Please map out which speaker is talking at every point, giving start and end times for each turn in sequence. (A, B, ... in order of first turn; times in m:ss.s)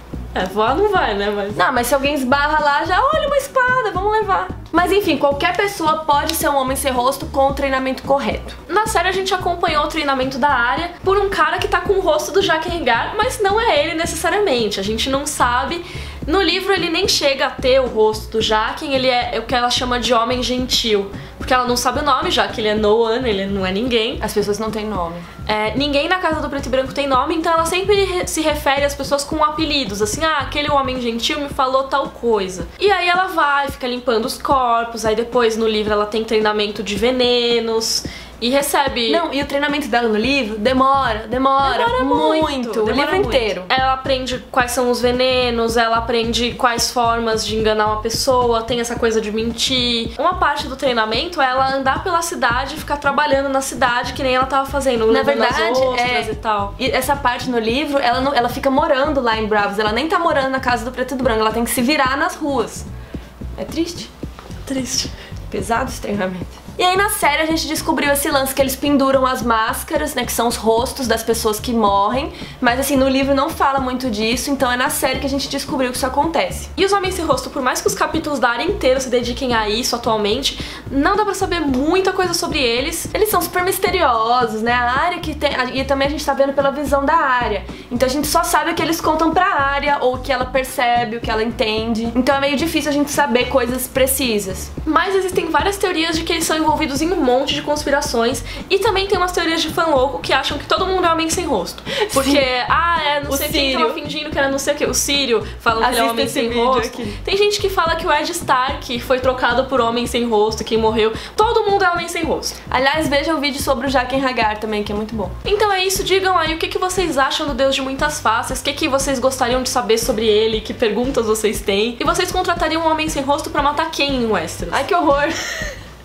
0:00.4-0:01.6 A
0:01.6-0:08.6 B
0:08.7-0:24.2 A
0:24.2-0:25.3 B
0:25.5-0:39.2 A
0:39.1-0:43.7 B
0:41.6-0:56.7 A
0:55.1-1:02.8 B
1:03.6-1:04.1 B
1:04.7-1:05.1 A
1:05.5-1:16.7 B
1:16.8-1:23.1 A
1:23.1-1:34.7 B
1:34.8-1:52.6 A
1:42.0-1:42.4 B
1:43.3-1:44.0 B
1:45.8-1:47.2 B
1:52.7-1:55.3 B
1:55.4-2:04.9 A
2:04.7-2:05.6 B